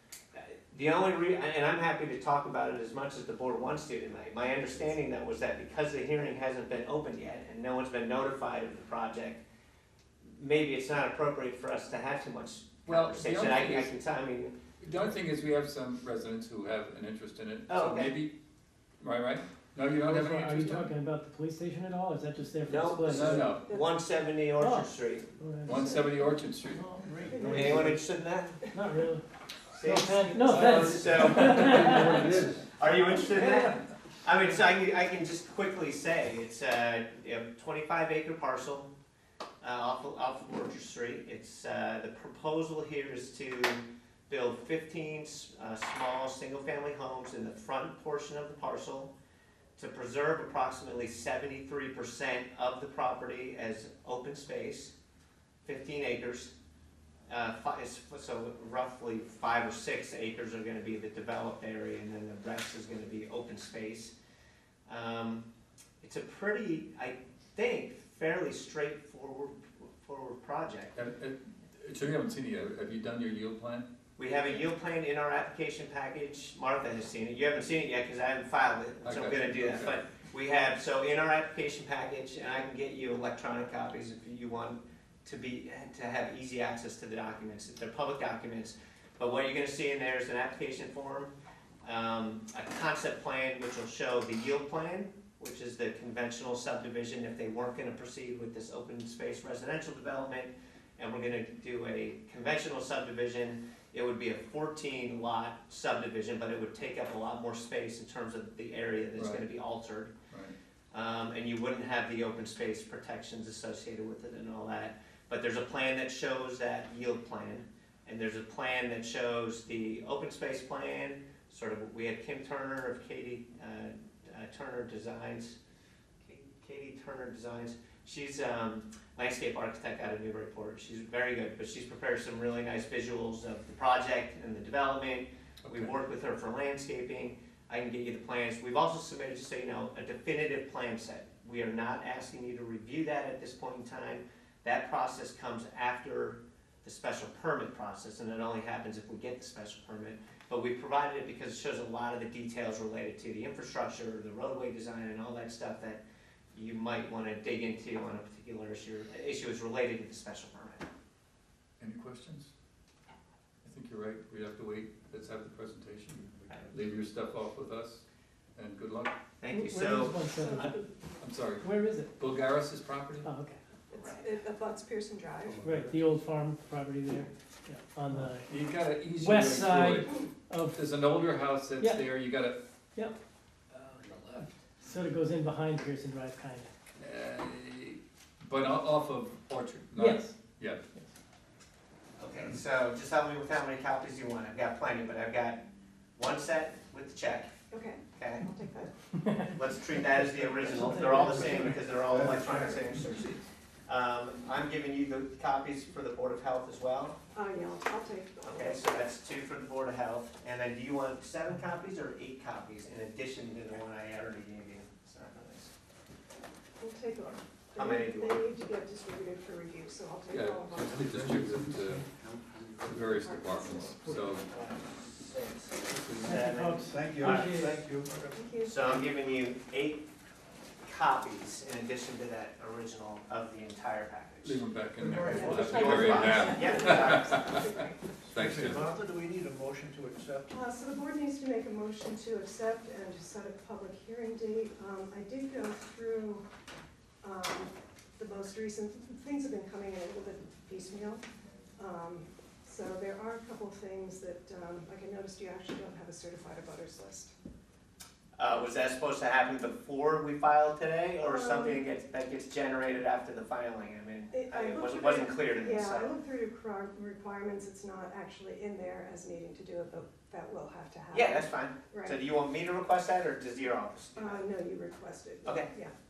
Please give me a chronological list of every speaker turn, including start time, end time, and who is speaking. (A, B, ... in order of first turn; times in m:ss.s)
0:00.3-0:09.4 A
0:10.3-0:14.5 A
0:12.8-0:13.9 B
0:14.8-0:18.3 B
0:17.7-0:18.1 A
0:19.0-0:20.9 B
0:20.0-0:23.5 C
0:22.7-0:25.3 A
0:23.0-0:23.6 B
0:23.6-0:23.9 D
0:24.6-0:26.1 C
0:25.6-0:26.8 B
0:26.8-0:27.6 C
0:27.0-0:28.0 E
0:27.3-0:28.0 D
0:27.4-0:28.6 A
0:28.7-0:29.2 C
0:29.7-0:38.9 A
0:29.8-0:32.1 C
0:30.4-0:32.5 B
0:31.8-0:32.6 E
0:39.6-0:49.1 A
0:49.8-0:54.9 A
0:55.6-0:56.5 A
0:57.3-1:04.1 A
1:04.9-1:05.4 A
1:06.0-1:10.9 A
1:10.9-1:13.9 B
1:14.2-1:31.3 A
1:19.0-1:20.0 B
1:31.8-1:50.1 A
1:49.2-1:49.5 B
1:50.9-2:05.6 A
2:06.2-2:36.0 A
2:15.6-2:15.9 B
2:36.5-2:40.8 A
2:41.8-2:42.5 B
2:43.6-2:48.0 B
2:46.4-2:46.7 E
2:48.5-2:49.1 B
2:49.4-2:50.2 A
2:49.5-2:50.9 C
2:50.2-2:50.8 D
2:51.2-2:51.6 B
2:51.6-2:52.1 C
2:52.2-2:53.2 B
2:53.2-2:53.6 C
2:53.9-2:55.6 D
2:53.9-2:54.2 A
2:55.5-2:56.1 E
2:55.6-2:58.5 C
2:58.5-3:00.2 B
2:59.2-3:00.8 C
3:00.7-3:02.6 B
3:03.7-3:04.5 B
3:04.8-3:06.7 C
3:07.0-3:10.8 B
3:10.0-3:10.3 C
3:12.2-3:15.6 A
3:16.2-3:17.5 A
3:17.7-3:18.9 D
3:18.1-3:18.4 A
3:19.5-3:27.2 A
3:20.6-3:23.2 E
3:27.3-3:28.8 D
3:28.4-3:35.7 A
3:36.8-3:41.0 D
3:37.8-3:38.4 A
3:40.3-3:42.1 B
3:40.9-3:43.3 E
3:42.8-3:44.4 B
3:43.2-3:44.1 D
3:44.4-3:47.7 A
3:46.2-3:47.7 C
3:46.9-3:48.4 E
3:48.3-3:49.0 D
3:48.6-3:50.1 A
3:50.8-3:54.6 A
3:54.4-3:57.7 B
3:55.0-3:56.4 E
3:55.2-3:58.1 D
3:55.4-3:57.6 A
3:58.3-3:58.8 B
3:58.3-4:00.6 E
4:00.5-4:06.4 D
4:07.2-4:11.2 D
4:11.8-4:17.3 D
4:18.4-4:26.1 A
4:21.2-4:21.8 D
4:24.3-4:32.2 D
4:31.1-4:34.4 A
4:34.2-4:35.9 D
4:35.4-4:35.7 A